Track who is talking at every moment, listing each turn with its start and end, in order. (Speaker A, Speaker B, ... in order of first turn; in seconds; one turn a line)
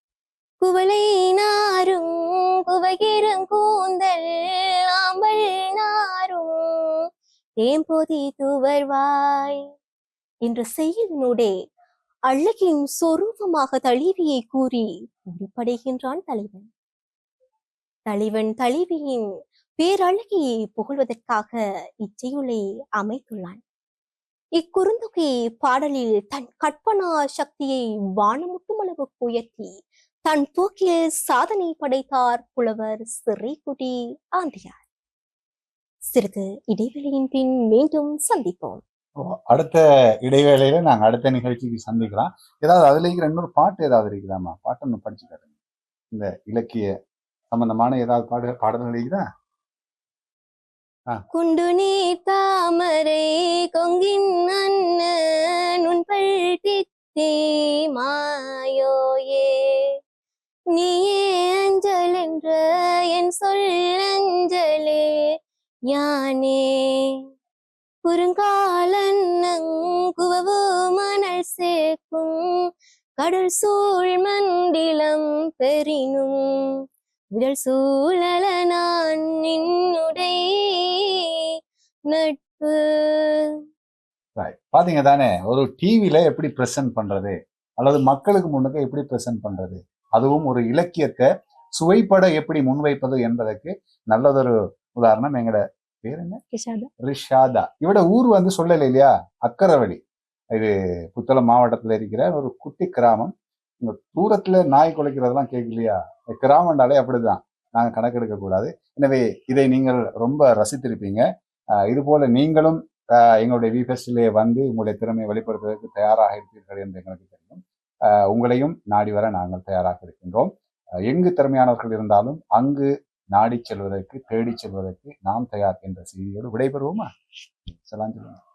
Speaker A: 0.6-7.0
Speaker A: 7.6-9.6
Speaker A: 10.4-11.5
Speaker A: 12.3-16.7
Speaker A: 18.1-19.3
Speaker A: 19.8-23.6
Speaker A: 24.6-29.7
Speaker A: 30.2-34.8
Speaker A: 36.0-38.8
Speaker B: 39.5-45.5
Speaker B: 46.1-46.9
Speaker B: 47.5-49.2
Speaker A: 51.3-55.1
Speaker A: 55.8-59.9
Speaker A: 60.7-65.2
Speaker A: 65.9-67.2
Speaker A: 68.0-72.6
Speaker A: 73.2-76.8
Speaker A: 77.3-81.4
Speaker A: 82.1-83.5
Speaker B: 84.4-96.4
Speaker A: 96.5-96.9
Speaker B: 97.1-100.0
Speaker B: 100.5-111.2
Speaker B: 111.8-117.6
Speaker B: 118.3-120.5
Speaker B: 121.1-127.1
Speaker B: 127.8-128.4